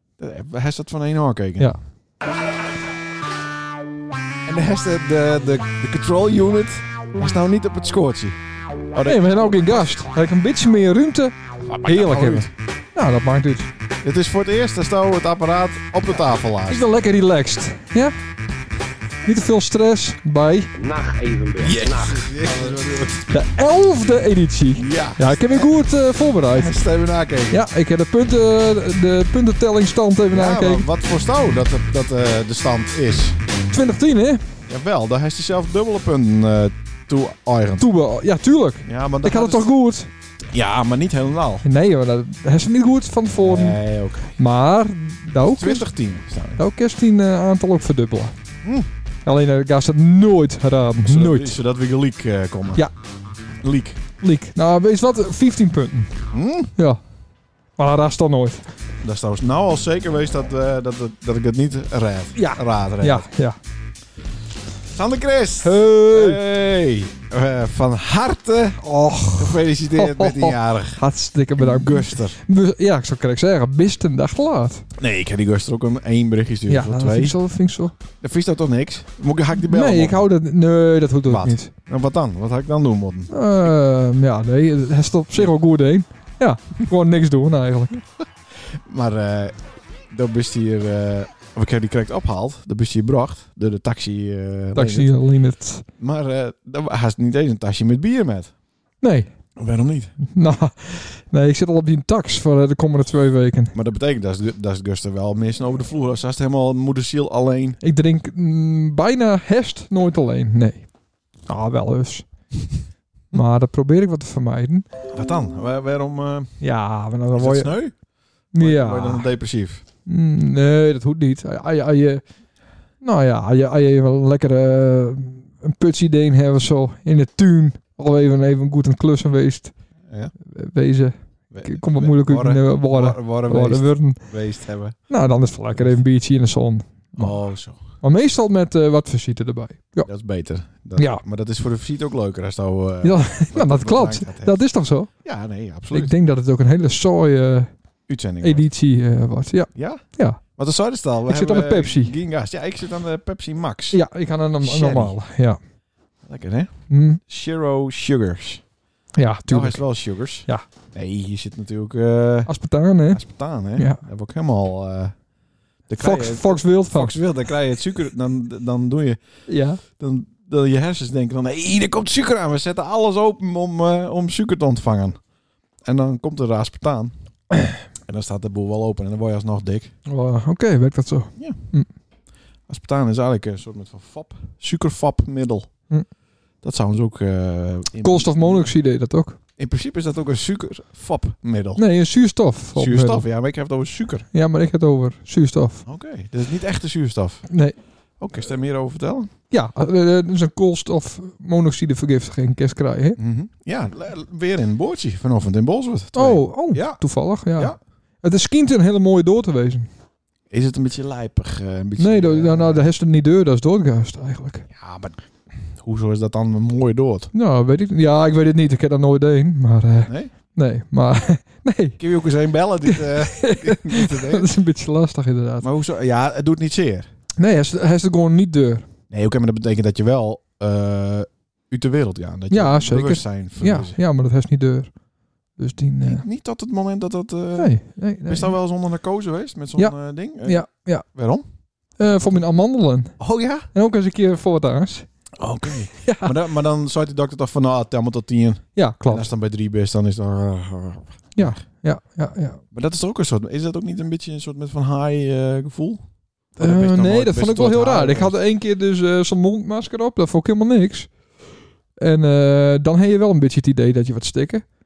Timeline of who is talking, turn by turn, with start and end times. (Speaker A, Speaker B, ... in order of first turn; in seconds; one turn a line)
Speaker A: 0.2-1.7
Speaker A: 4.5-8.4
Speaker A: 8.9-9.8
Speaker B: 9.0-13.7
Speaker A: 11.6-12.5
Speaker A: 14.0-16.9
Speaker B: 16.7-18.1
Speaker B: 19.2-20.7
Speaker C: 20.8-22.8
Speaker A: 21.6-23.3
Speaker B: 23.3-26.8
Speaker A: 24.7-25.7
Speaker A: 26.5-27.6
Speaker B: 27.5-30.9
Speaker A: 30.3-33.4
Speaker B: 33.7-34.4
Speaker A: 34.7-37.9
Speaker B: 37.8-40.1
Speaker A: 38.8-39.7
Speaker A: 40.5-41.6
Speaker B: 41.6-43.8
Speaker A: 43.3-44.4
Speaker B: 44.4-45.9
Speaker A: 45.4-46.6
Speaker B: 46.6-48.3
Speaker B: 49.2-51.6
Speaker A: 51.0-52.9
Speaker A: 53.6-54.0
Speaker B: 54.2-56.1
Speaker A: 56.3-56.7
Speaker B: 57.8-58.7
Speaker A: 59.0-63.3
Speaker B: 62.3-63.6
Speaker A: 64.9-68.8
Speaker B: 65.6-66.4
Speaker B: 68.8-74.8
Speaker A: 69.4-71.0
Speaker A: 71.5-72.4
Speaker A: 75.0-77.3
Speaker B: 76.7-78.0
Speaker A: 78.2-80.2
Speaker B: 79.5-81.7
Speaker A: 81.3-83.4
Speaker B: 83.3-88.0
Speaker A: 88.7-89.6
Speaker A: 90.1-95.1
Speaker B: 94.7-95.8
Speaker A: 96.0-98.5
Speaker B: 99.0-99.3
Speaker A: 99.6-100.2
Speaker B: 100.2-103.7
Speaker A: 103.7-107.8
Speaker B: 107.8-110.9
Speaker B: 111.5-112.3
Speaker B: 113.3-114.8
Speaker A: 115.1-116.6
Speaker B: 116.6-117.7
Speaker A: 117.3-117.9
Speaker B: 118.5-119.3
Speaker A: 118.6-119.8
Speaker B: 120.0-122.2
Speaker B: 123.0-129.7
Speaker B: 130.4-134.2
Speaker A: 131.5-135.0
Speaker B: 135.1-137.3
Speaker A: 137.2-137.8
Speaker B: 138.0-140.1
Speaker A: 140.0-144.6
Speaker B: 141.0-141.2
Speaker B: 143.0-145.1
Speaker A: 145.2-146.1
Speaker B: 145.9-147.7
Speaker A: 148.1-148.7
Speaker B: 148.4-150.4
Speaker A: 149.7-150.0
Speaker A: 150.6-154.0
Speaker B: 151.3-152.1
Speaker B: 153.9-155.6
Speaker A: 154.6-155.1
Speaker A: 156.2-156.7
Speaker B: 156.9-157.2
Speaker A: 157.2-158.6
Speaker B: 159.1-159.8
Speaker A: 159.5-162.5
Speaker B: 162.5-163.2
Speaker A: 163.1-165.1
Speaker A: 165.9-169.2
Speaker B: 166.0-167.2
Speaker B: 169.5-169.8
Speaker A: 169.9-175.2
Speaker A: 175.8-177.1
Speaker A: 178.0-179.9
Speaker B: 180.1-181.9
Speaker A: 182.7-185.7
Speaker A: 186.6-188.7
Speaker B: 188.0-189.4
Speaker A: 189.6-191.8
Speaker B: 191.8-193.2
Speaker A: 192.8-194.2
Speaker B: 194.3-195.8
Speaker A: 195.8-197.5
Speaker B: 197.5-197.8
Speaker A: 198.2-199.3
Speaker B: 199.5-203.2
Speaker A: 203.2-207.0
Speaker B: 206.2-209.9
Speaker A: 210.5-212.9
Speaker B: 212.0-214.7
Speaker A: 214.7-217.3
Speaker B: 217.3-222.0
Speaker A: 220.1-220.3
Speaker A: 222.0-224.5
Speaker B: 222.8-225.7
Speaker A: 225.6-227.1
Speaker B: 227.4-228.9
Speaker A: 229.1-234.0
Speaker B: 232.5-234.9
Speaker B: 235.6-236.2
Speaker A: 236.0-241.4
Speaker B: 237.6-238.5
Speaker B: 239.8-241.1
Speaker B: 242.0-243.2
Speaker A: 243.2-243.7
Speaker B: 243.7-245.1
Speaker A: 245.4-251.6
Speaker B: 245.9-246.4
Speaker B: 248.8-249.3
Speaker B: 251.3-252.6
Speaker A: 252.7-256.0
Speaker A: 256.5-258.4
Speaker B: 256.6-261.1
Speaker B: 262.0-264.6